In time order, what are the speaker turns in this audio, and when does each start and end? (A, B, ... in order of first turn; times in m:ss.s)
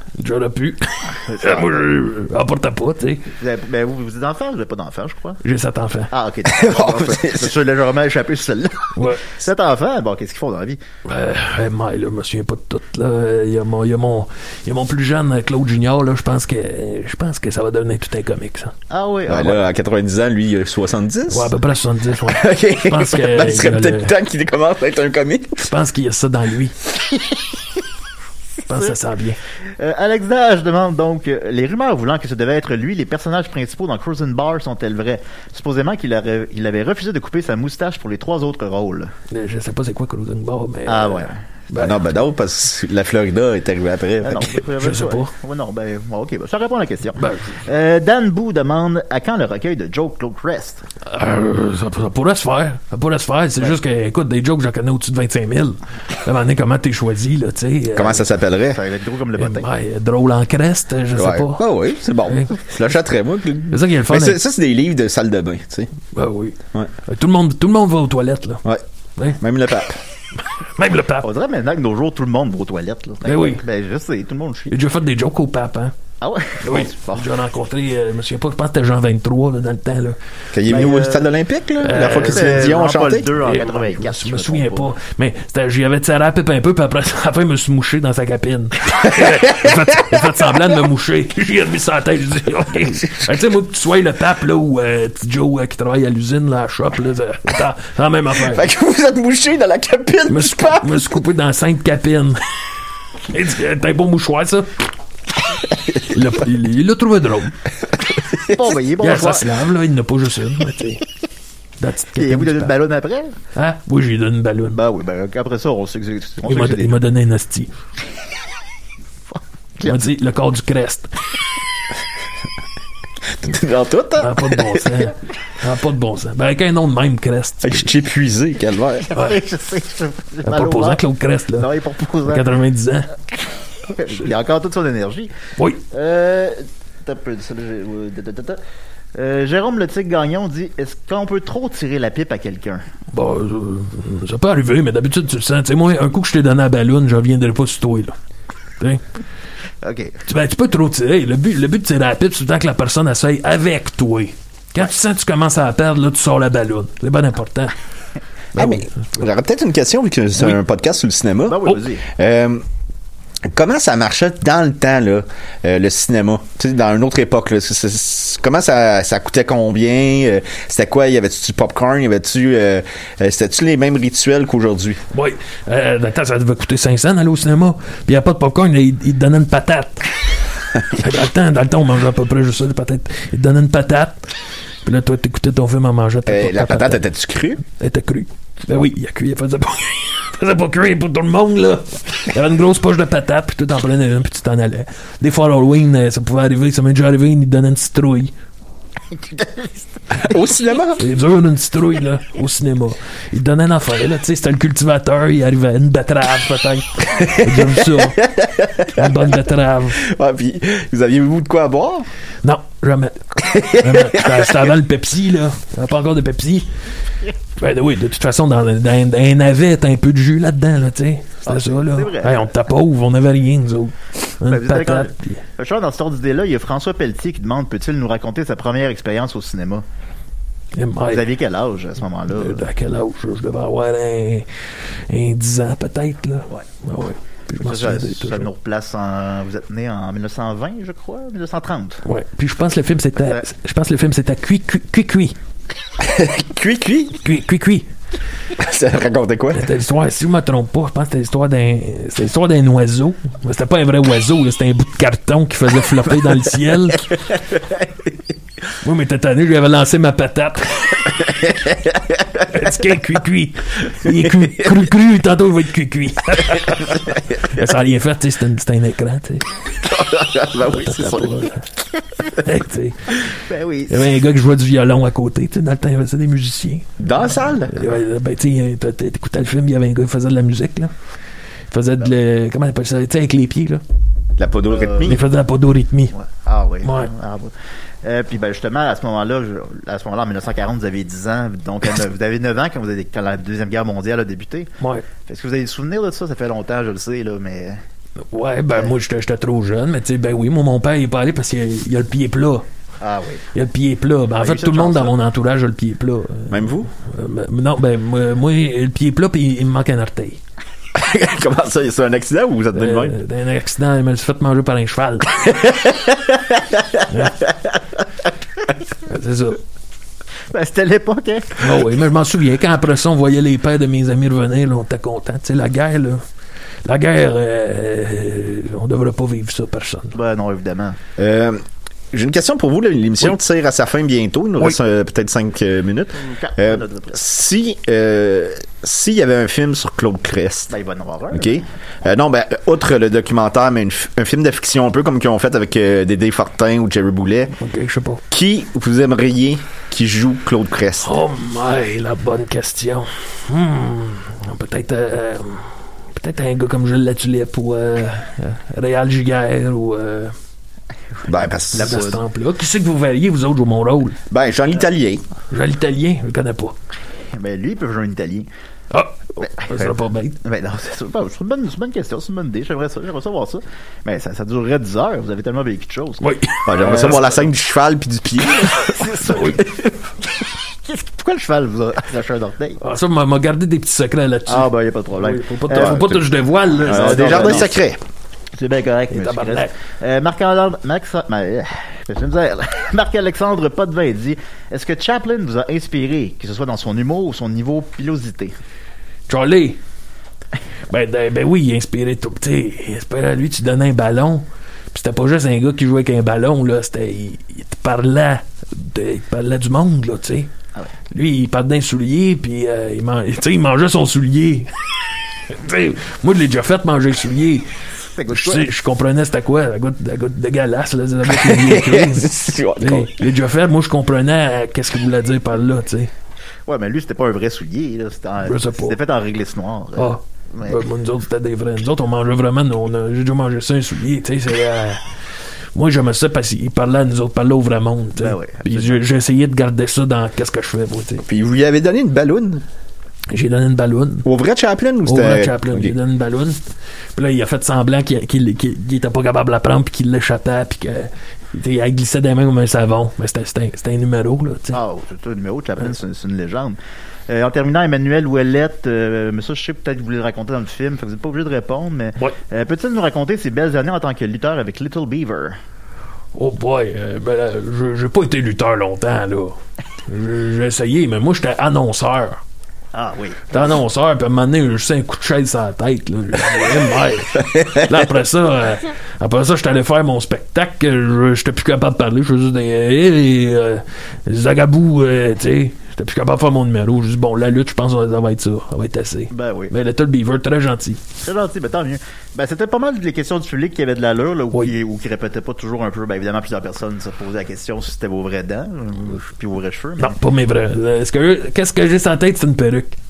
0:00.2-0:03.3 A
0:01.1-0:01.9 B
0:03.4-0:05.4 B
0:05.4-0:06.1 A
0:06.1-0:10.8 B
0:06.4-0:07.6 C
0:09.0-0:09.2 A
0:11.0-0:18.7 A
0:18.9-0:19.6 B
0:19.2-0:21.5 C
0:21.3-0:24.1 A
0:22.3-0:25.7 C
0:25.6-0:26.7 A
0:28.6-0:29.4 A
0:29.8-0:39.1 B
0:39.3-0:42.0 A
0:40.9-0:41.9 B
0:41.8-0:44.6 C
0:44.2-0:50.8 B
0:44.8-0:45.3 A
0:47.2-0:47.6 A
0:51.1-0:58.3 A
0:57.9-0:58.8 C
0:58.7-0:59.7 B
0:59.4-1:01.7 A
1:01.1-1:05.9 C
1:02.2-1:02.6 A
1:03.7-1:04.4 A
1:06.1-1:08.6 A
1:09.4-1:10.0 C
1:10.6-1:11.3 A
1:11.2-1:14.7 B
1:13.2-1:13.6 A
1:14.7-1:15.9 A
1:16.2-1:17.3 B
1:16.6-1:20.2 A
1:20.5-1:23.4 C
1:20.6-1:21.3 B
1:21.8-1:22.7 A
1:22.0-1:24.9 B
1:23.4-1:38.7 A
1:29.2-1:29.5 C
1:38.4-1:41.1 C
1:40.3-1:42.4 A
1:43.3-1:44.9 A
1:46.0-1:47.5 A
1:48.4-1:49.5 B
1:49.0-1:51.0 A
1:51.8-1:52.7 A
1:52.2-1:53.3 B
1:53.5-1:54.8 A
1:54.7-1:56.9 B
1:56.5-1:57.7 A
1:59.3-2:00.0 B
1:59.8-2:01.1 A
2:03.3-2:05.0 C
2:04.2-2:07.9 A
2:07.6-2:09.1 C
2:09.0-2:11.0 B
2:10.4-2:11.7 A
2:11.6-2:12.5 B
2:12.2-2:13.1 A
2:13.4-2:15.3 B
2:15.9-2:18.6 B
2:19.1-2:22.8 B
2:23.1-2:28.1 A
2:29.8-2:30.2 B
2:30.2-2:37.7 A
2:38.5-2:39.3 A
2:38.6-2:42.6 C
2:41.4-2:42.0 B
2:43.5-2:55.0 C
2:55.1-3:00.1 A
3:00.9-3:04.2 A
3:04.8-3:07.0 A
3:06.2-3:07.6 C
3:07.7-3:18.3 A
3:19.1-3:19.8 B
3:20.1-3:21.0 C
3:21.0-3:28.2 A
3:27.1-3:29.3 C
3:28.9-3:30.0 A
3:30.0-3:32.1 C
3:32.4-3:36.7 A
3:33.4-3:34.7 C
3:37.6-3:45.4 A
3:41.4-3:42.5 B
3:44.5-3:49.8 B
3:50.7-3:51.3 A
3:51.1-3:52.7 B
3:52.3-3:54.5 A
3:55.1-3:58.5 A
3:57.6-4:02.0 B
4:02.0-4:05.3 A
4:06.0-4:07.2 C
4:07.2-4:07.9 A
4:08.6-4:09.7 C
4:09.5-4:17.1 A
4:18.8-4:21.1 A
4:21.3-4:22.4 C
4:22.5-4:29.6 A
4:24.0-4:24.7 C
4:29.8-4:31.5 C
4:30.7-4:31.7 A
4:32.3-4:33.2 A
4:33.4-4:34.1 B
4:33.9-4:37.0 A
4:37.0-4:37.8 C
4:37.7-4:40.9 A
4:41.7-4:43.8 A
4:44.4-4:45.2 C
4:44.7-4:45.2 B
4:45.0-4:46.1 A
4:46.1-4:54.7 B
4:46.8-4:47.1 A
4:54.8-4:55.1 A
4:55.2-4:57.8 B
4:58.3-5:02.6 A
5:03.0-5:03.4 B
5:03.5-5:10.4 A
5:04.4-5:05.1 B
5:06.5-5:06.9 C
5:10.9-5:13.2 C
5:12.7-5:15.5 A
5:15.4-5:17.0 C
5:17.1-5:17.4 A
5:19.0-5:19.6 A
5:20.5-5:21.5 B
5:21.6-5:26.2 A
5:26.8-5:30.2 A
5:30.1-5:31.0 B
5:31.2-5:31.6 C
5:32.1-5:40.7 C
5:36.2-5:37.2 B
5:40.7-5:41.6 B
5:41.3-5:47.5 C
5:47.5-5:48.2 A
5:48.3-5:51.1 C
5:51.0-6:00.3 A
6:01.3-6:02.2 C
6:01.7-6:04.2 A
6:04.3-6:05.2 C
6:05.5-6:06.8 A
6:07.3-6:08.5 B
6:08.9-6:10.4 A
6:09.4-6:17.5 B
6:16.2-6:17.2 A
6:16.6-6:19.0 C
6:18.7-6:19.9 B
6:19.1-6:19.6 A
6:20.8-6:22.8 B
6:22.8-6:27.7 A
6:24.5-6:26.2 B
6:25.8-6:26.2 C
6:26.8-6:27.7 B
6:26.8-6:28.0 C
6:28.5-6:38.5 B
6:29.1-6:29.7 A
6:39.3-6:39.8 A
6:40.9-6:50.5 A
6:51.1-6:54.7 A
6:55.5-6:57.7 A
6:58.2-6:58.6 B
6:58.3-7:06.1 A
7:01.2-7:03.3 C
7:06.7-7:10.8 B
7:08.4-7:09.0 A
7:10.0-7:15.0 A
7:15.7-7:21.2 A
7:18.2-7:19.0 B
7:21.3-7:22.6 C
7:23.3-7:24.2 A
7:24.2-7:26.0 C
7:25.0-7:26.6 A
7:27.2-7:34.8 A
7:34.7-7:36.8 B
7:37.3-7:45.6 B
7:46.3-7:52.4 A
7:52.9-7:53.7 B
7:53.5-8:11.0 A
8:09.3-8:09.7 B
8:11.2-8:20.2 B
8:20.0-8:23.0 A